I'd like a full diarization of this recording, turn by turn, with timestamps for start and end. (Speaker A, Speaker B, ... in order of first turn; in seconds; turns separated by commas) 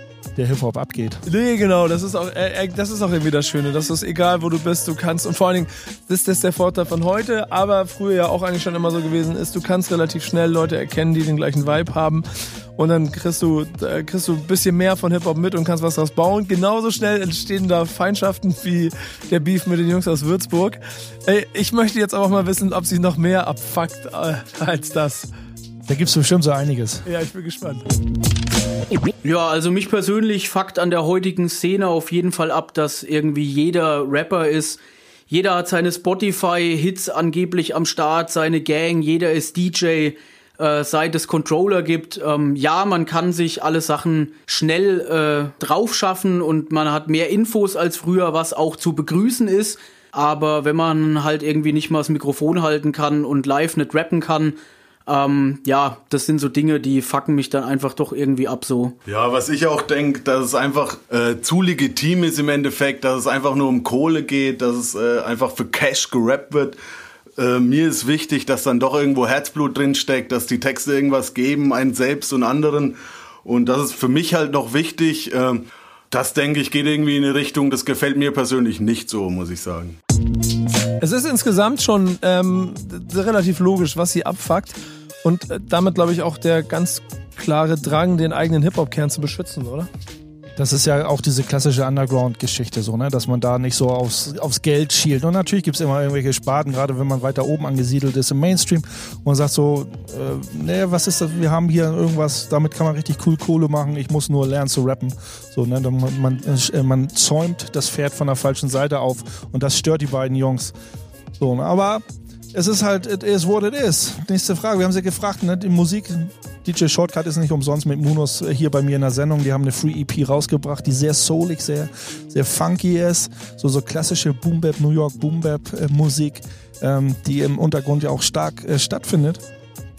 Speaker A: 0.3-1.2, Speaker B: 1.2-25.3, Speaker A: 25.9-27.0, Speaker B: 27.0-27.8, Speaker C: 29.2-54.5, Speaker C: 55.1-58.9, Speaker D: 59.0-66.8, Speaker D: 67.4-80.0, Speaker B: 81.0-89.9, Speaker A: 90.5-110.7, Speaker A: 111.4-129.4